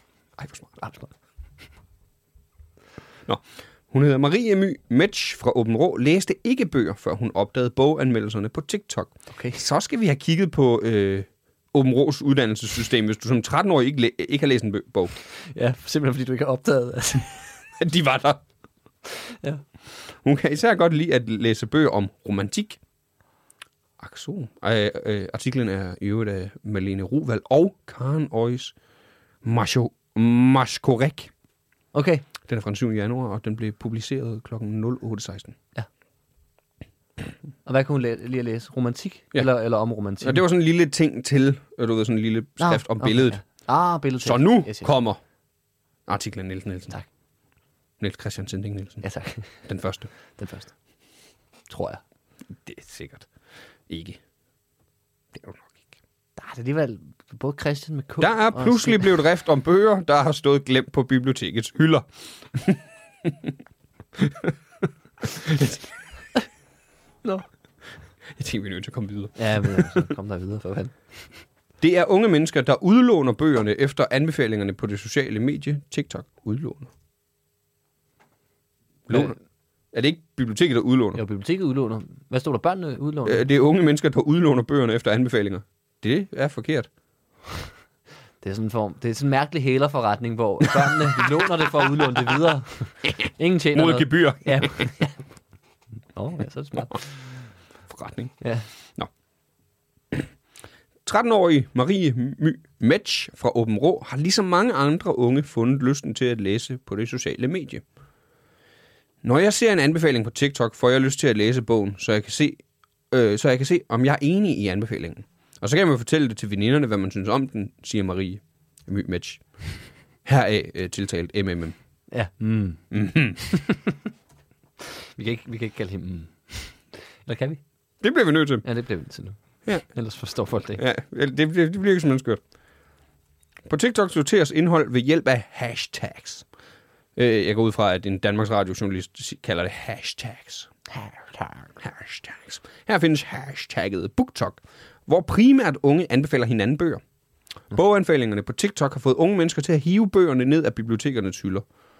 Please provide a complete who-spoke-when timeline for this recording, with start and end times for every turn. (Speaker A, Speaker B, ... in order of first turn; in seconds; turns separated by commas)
Speaker A: 0.4-0.8, Speaker B: 0.8-1.1, Speaker A: 3.2-15.2, Speaker B: 9.3-9.6, Speaker B: 15.5-17.4, Speaker A: 17.8-18.4, Speaker B: 19.2-19.6, Speaker A: 20.2-22.8, Speaker A: 24.0-28.7, Speaker A: 29.4-31.3, Speaker B: 31.9-32.2, Speaker A: 32.5-35.6, Speaker B: 37.6-40.4, Speaker A: 40.2-43.6, Speaker B: 42.6-44.9, Speaker A: 44.2-45.2, Speaker A: 46.1-46.9, Speaker A: 48.0-50.1, Speaker B: 49.0-49.6, Speaker B: 50.3-50.7, Speaker B: 51.7-52.0, Speaker A: 52.6-53.3, Speaker A: 53.9-54.2, Speaker A: 55.3-55.8, Speaker B: 56.4-59.1, Speaker A: 58.2-63.5, Speaker A: 64.2-64.5, Speaker A: 65.2-65.9, Speaker A: 68.3-70.0, Speaker B: 69.3-71.4, Speaker A: 71.8-76.9, Speaker A: 79.1-79.4, Speaker B: 79.1-79.3, Speaker A: 79.9-81.2, Speaker B: 81.1-83.4, Speaker A: 83.2-86.9, Speaker B: 88.4-95.2, Speaker A: 93.7-94.9, Speaker B: 96.1-97.3, Speaker A: 97.9-99.1, Speaker B: 98.4-98.7, Speaker A: 101.0-107.8, Speaker A: 109.2-121.8, Speaker B: 122.1-123.9, Speaker A: 122.9-123.4, Speaker B: 125.1-127.6, Speaker A: 128.0-128.7, Speaker B: 128.6-130.8, Speaker A: 129.6-129.9, Speaker A: 130.8-132.4, Speaker A: 133.7-136.4, Speaker A: 137.2-140.7, Speaker A: 141.8-147.0, Speaker A: 147.7-151.7